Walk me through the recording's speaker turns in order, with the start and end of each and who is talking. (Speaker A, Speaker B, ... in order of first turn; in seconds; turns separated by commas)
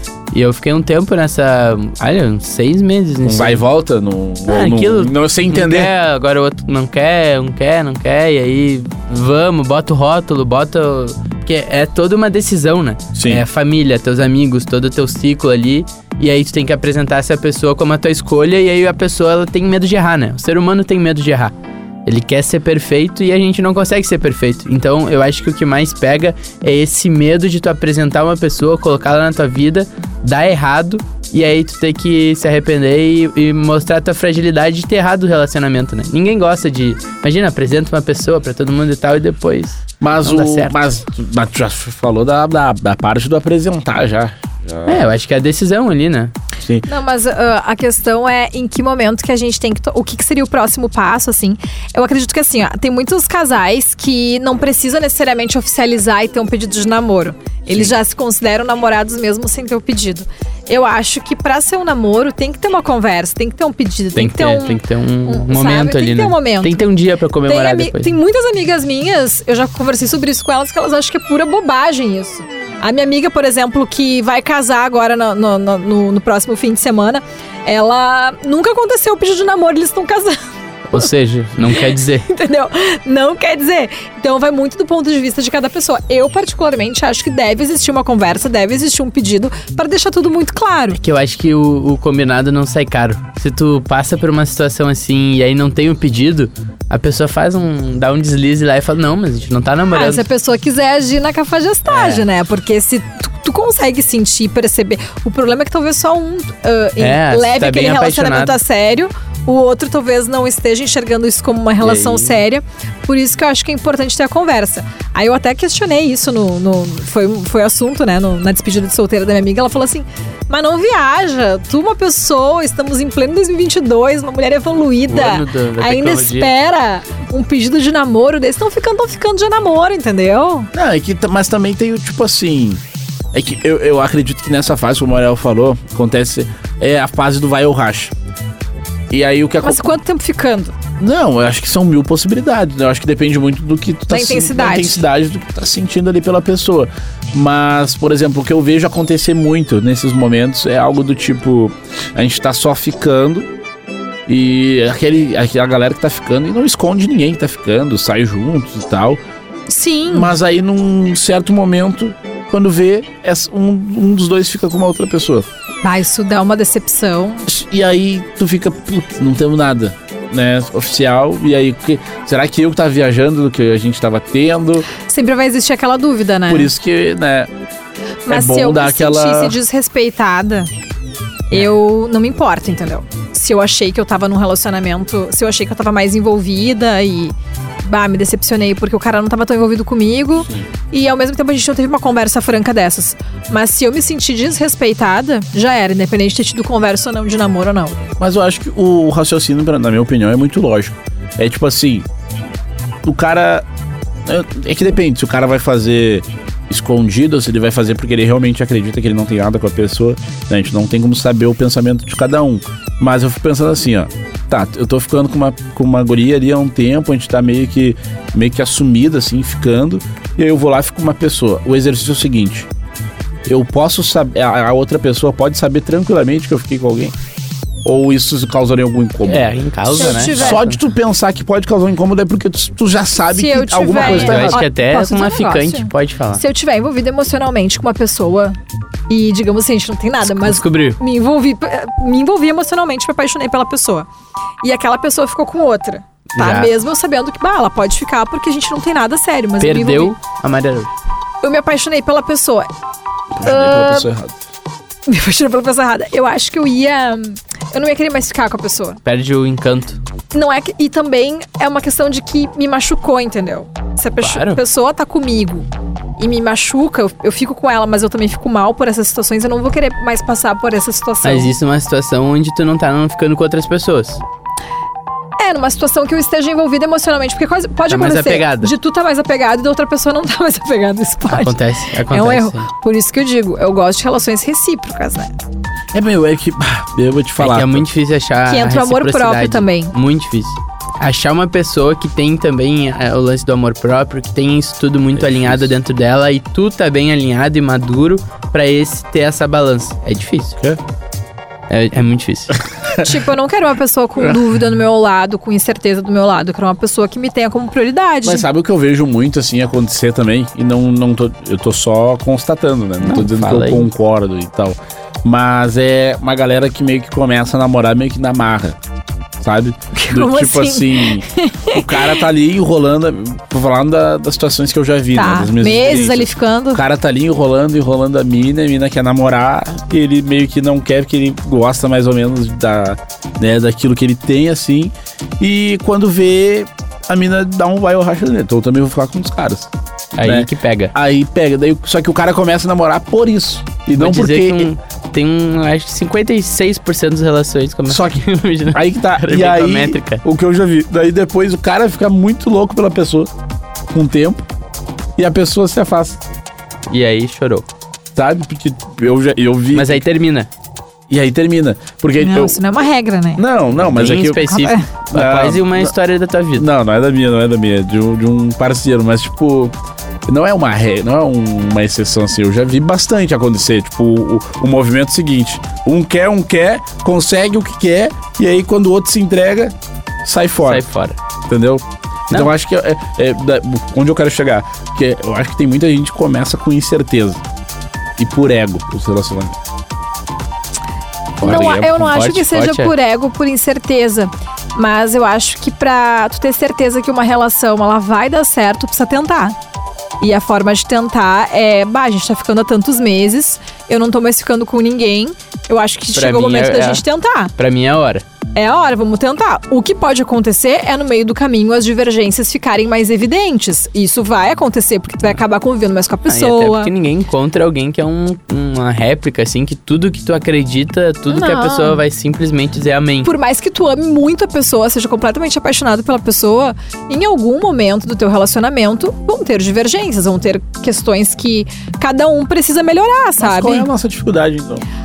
Speaker A: 0.3-3.6, Speaker B: 3.2-5.9, Speaker A: 4.5-21.5, Speaker B: 13.1-13.4, Speaker A: 22.1-40.8, Speaker B: 40.0-45.1, Speaker A: 44.9-46.3, Speaker B: 46.6-46.9, Speaker C: 46.9-66.8, Speaker A: 64.2-68.1, Speaker C: 67.5-80.4, Speaker A: 80.9-82.3, Speaker C: 81.6-91.0, Speaker A: 90.9-100.2, Speaker C: 99.9-130.7, Speaker A: 101.9-102.2, Speaker A: 107.0-108.6, Speaker A: 111.8-112.4, Speaker A: 125.1-126.5, Speaker B: 130.7-132.8, Speaker B: 133.3-138.1, Speaker B: 139.1-140.0, Speaker C: 139.6-140.8, Speaker B: 141.0-153.5, Speaker C: 144.1-145.0, Speaker B: 154.3-159.2, Speaker C: 159.7-160.3, Speaker B: 160.1-165.5, Speaker C: 165.8-167.4, Speaker B: 167.5-174.9, Speaker C: 175.0-176.7, Speaker B: 176.5-177.5, Speaker C: 178.2-180.7, Speaker B: 178.3-179.6, Speaker C: 181.5-198.0, Speaker B: 198.2-202.0, Speaker B: 203.0-203.7, Speaker B: 204.2-222.7, Speaker B: 223.5-227.1, Speaker B: 227.8-234.6, Speaker A: 229.2-230.8, Speaker C: 229.9-230.7, Speaker C: 233.3-238.6, Speaker A: 234.0-236.4, Speaker C: 239.1-244.1, Speaker A: 240.2-241.0, Speaker C: 244.6-250.1, Speaker A: 246.3-246.7, Speaker A: 249.6-250.9, Speaker C: 251.4-252.7, Speaker B: 253.4-254.4, Speaker C: 253.4-254.1, Speaker C: 255.1-259.0, Speaker A: 259.0-260.0, Speaker C: 260.3-265.6, Speaker A: 264.2-264.6, Speaker C: 266.2-271.5, Speaker A: 271.2-274.2, Speaker C: 275.4-281.6, Speaker A: 277.9-278.7, Speaker A: 281.3-282.7, Speaker C: 282.1-285.4, Speaker B: 285.9-287.9, Speaker A: 287.4-300.6, Speaker C: 288.5-289.9, Speaker B: 295.2-295.7, Speaker A: 301.7-302.6, Speaker B: 302.8-303.1, Speaker C: 303.0-308.4, Speaker B: 308.2-318.8, Speaker A: 313.0-313.9, Speaker B: 319.4-339.7, Speaker C: 319.9-322.2, Speaker C: 325.1-326.8, Speaker A: 340.1-340.9, Speaker B: 340.2-344.7, Speaker A: 344.0-350.2, Speaker B: 347.9-353.3, Speaker B: 353.9-354.4, Speaker B: 355.2-356.2, Speaker A: 356.9-357.7, Speaker B: 358.1-360.0, Speaker A: 359.7-360.5, Speaker B: 361.1-362.6, Speaker C: 362.2-363.4, Speaker B: 363.4-364.5, Speaker A: 363.9-366.6, Speaker C: 364.4-364.9, Speaker B: 365.1-365.9, Speaker B: 366.6-369.7, Speaker B: 370.3-380.8, Speaker A: 380.6-381.2, Speaker B: 381.5-387.4, Speaker B: 388.2-389.6, Speaker C: 391.4-399.6, Speaker B: 391.4-392.2, Speaker A: 392.0-392.9, Speaker C: 400.2-407.5, Speaker A: 406.1-407.0, Speaker A: 407.6-408.2, Speaker C: 408.5-416.9, Speaker A: 416.3-423.3, Speaker C: 421.3-422.0, Speaker C: 423.2-433.9, Speaker B: 433.4-434.8